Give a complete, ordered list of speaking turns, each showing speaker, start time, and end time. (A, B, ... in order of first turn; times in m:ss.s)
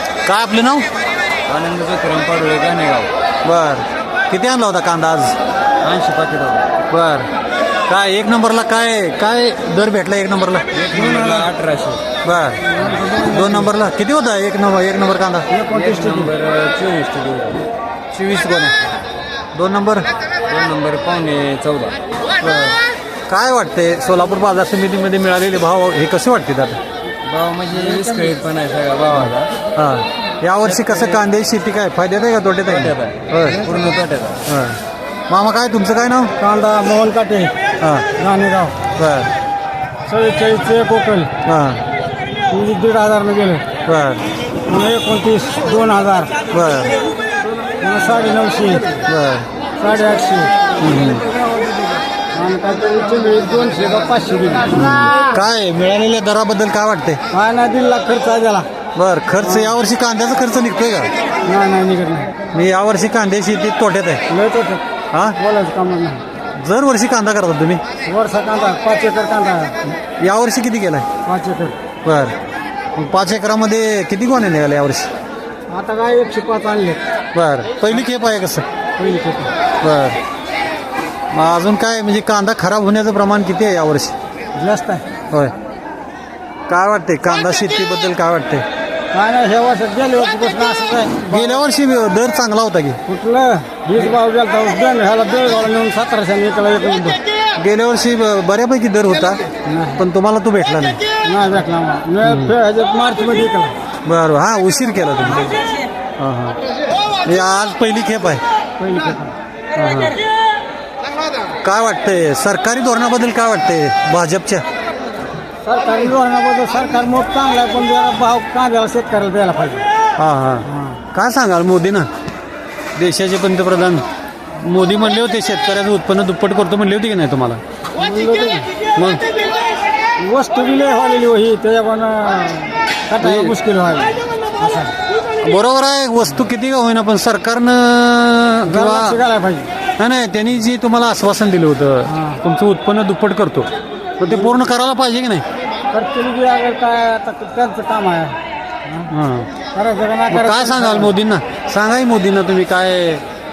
0:00.2-0:00.9 A
0:01.5-0:03.1 B
0:03.4-0:05.4 A
0:05.8-0:06.7 B
0:06.9-0:07.3 A
0:07.9-0:10.7 A
0:10.8-0:12.0 B
0:12.2-0:15.5 A
0:12.7-0:13.7 C
0:15.5-0:16.3 C
0:15.7-0:17.6 B
0:18.1-0:18.8 A
0:19.5-0:20.1 A
0:20.5-0:22.0 B
0:22.4-0:26.8 A
0:27.2-0:29.5 B
0:29.1-0:33.8 A
0:30.8-0:31.2 B
0:32.7-0:34.4 B
0:34.5-0:36.3 A
0:36.4-0:37.5 C
0:37.8-0:38.1 A
0:38.2-0:38.8 C
0:39.0-0:39.3 A
0:40.1-0:41.3 C
0:41.4-0:41.8 A
0:42.5-0:43.6 C
0:43.9-0:44.2 A
0:44.7-0:46.3 C
0:46.5-0:47.0 A
0:47.8-0:49.0 C
0:49.0-0:49.5 A
0:49.8-0:50.5 C
0:50.8-0:51.3 A
0:52.3-0:54.9 C
0:54.7-0:57.2 A
0:57.3-0:58.7 C
0:59.0-1:01.1 A
0:59.4-0:59.7 C
1:01.4-1:02.4 C
1:02.5-1:04.2 A
1:04.3-1:04.8 C
1:05.1-1:05.4 A
1:05.4-1:06.2 C
1:06.6-1:07.8 A
1:08.1-1:09.8 C
1:10.0-1:11.1 A
1:11.2-1:11.8 C
1:12.0-1:12.4 A
1:13.0-1:15.1 A
1:15.7-1:17.0 C
1:17.4-1:18.7 A
1:19.0-1:19.5 C
1:19.8-1:20.2 A
1:21.3-1:24.2 A
1:24.6-1:25.0 C
1:26.7-1:28.6 A
1:29.1-1:31.6 C
1:31.3-1:33.0 A
1:33.1-1:37.2 C
1:37.6-1:39.4 A
1:39.7-1:40.0 C
1:40.0-1:41.0 A
1:41.2-1:43.7 C
1:42.2-1:42.6 A
1:44.1-1:45.6 A
1:46.2-1:46.6 A
1:47.2-1:48.4 A
1:48.8-1:49.3 C
1:49.8-1:50.2 A
1:51.6-1:54.6 A
1:55.6-1:59.8 C
2:00.2-2:02.1 A
2:00.7-2:01.0 C
2:03.0-2:04.1 A
2:04.6-2:07.6 A
2:08.0-2:08.7 C
2:09.0-2:09.2 A
2:10.2-2:15.0 C
2:13.2-2:13.6 A
2:15.4-2:19.2 A
2:18.7-2:19.7 C
2:20.0-2:25.4 A
2:22.1-2:22.4 C
2:24.3-2:24.6 C
2:25.9-2:29.1 C
2:29.1-2:29.5 A
2:29.7-2:31.1 C
2:30.3-2:33.2 A